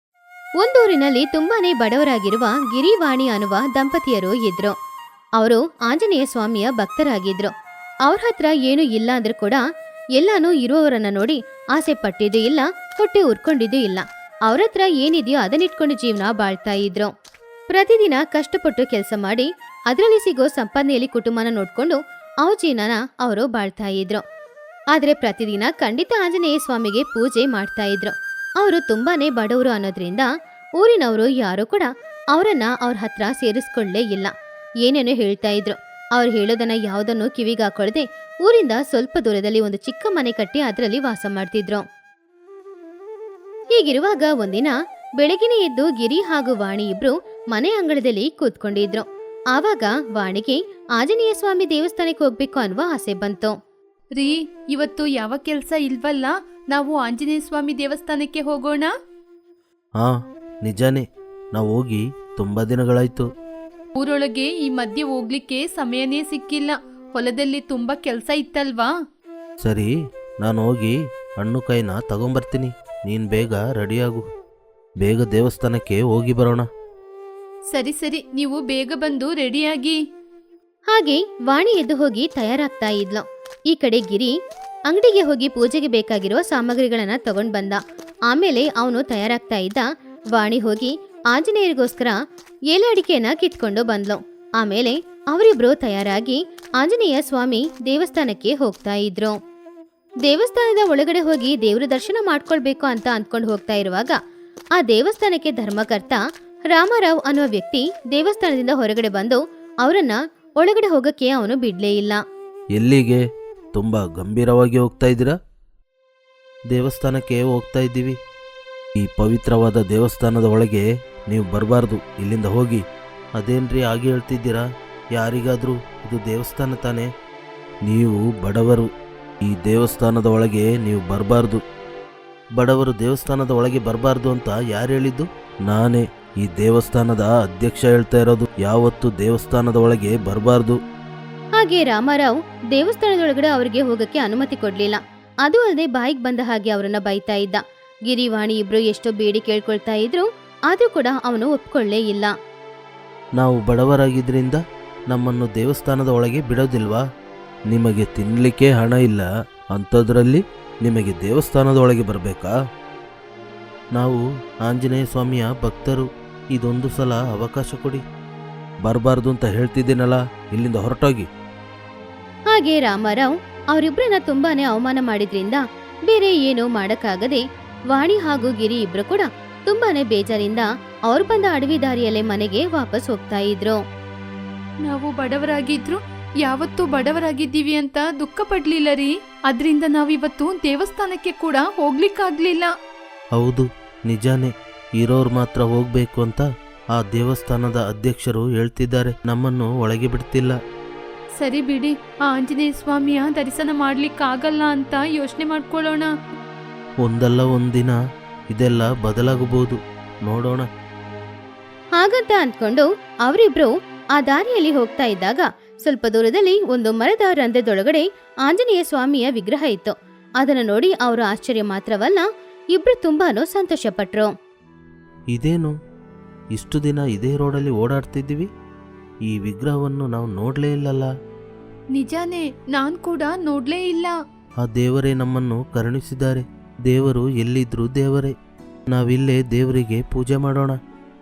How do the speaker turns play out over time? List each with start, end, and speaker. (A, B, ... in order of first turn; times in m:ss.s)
0:00.6-0:04.8 A
0:05.4-0:07.5 A
0:08.1-0:09.6 A
0:10.2-0:17.1 A
0:17.7-0:24.2 A
0:24.9-0:30.3 A
0:30.8-0:34.3 A
0:34.8-0:41.8 A
0:43.8-0:53.6 A
0:54.2-0:58.9 B
1:00.0-1:01.0 C
1:01.6-1:03.3 C
1:04.0-1:08.9 B
1:09.6-1:09.9 C
1:10.4-1:14.2 C
1:15.0-1:16.7 C
1:17.7-1:20.0 B
1:20.9-1:24.3 A
1:24.9-1:29.8 A
1:30.4-1:32.2 A
1:32.7-1:39.4 A
1:40.3-1:44.2 A
1:44.8-1:46.2 A
1:46.7-1:52.2 A
1:52.8-1:53.2 C
1:53.8-1:55.4 C
1:56.7-1:58.2 C
1:59.0-2:02.8 C
2:03.4-2:07.1 C
2:07.9-2:08.9 C
2:09.4-2:11.6 C
2:12.6-2:20.8 C
2:21.6-2:32.3 A
2:33.4-2:37.0 C
2:37.7-2:42.6 C
2:44.0-2:48.0 C
2:48.8-2:51.3 C
2:52.5-3:03.8 A
3:04.8-3:12.7 B
3:13.4-3:20.6 C
3:21.4-3:26.1 B
3:27.0-3:28.0 C
3:28.5-3:30.7 C
3:32.0-3:44.3 A
3:45.3-3:45.8 C
3:46.6-3:48.5 C
3:49.3-3:51.1 C
3:52.0-3:54.2 B
3:54.6-3:58.3 C
3:58.9-4:00.8 C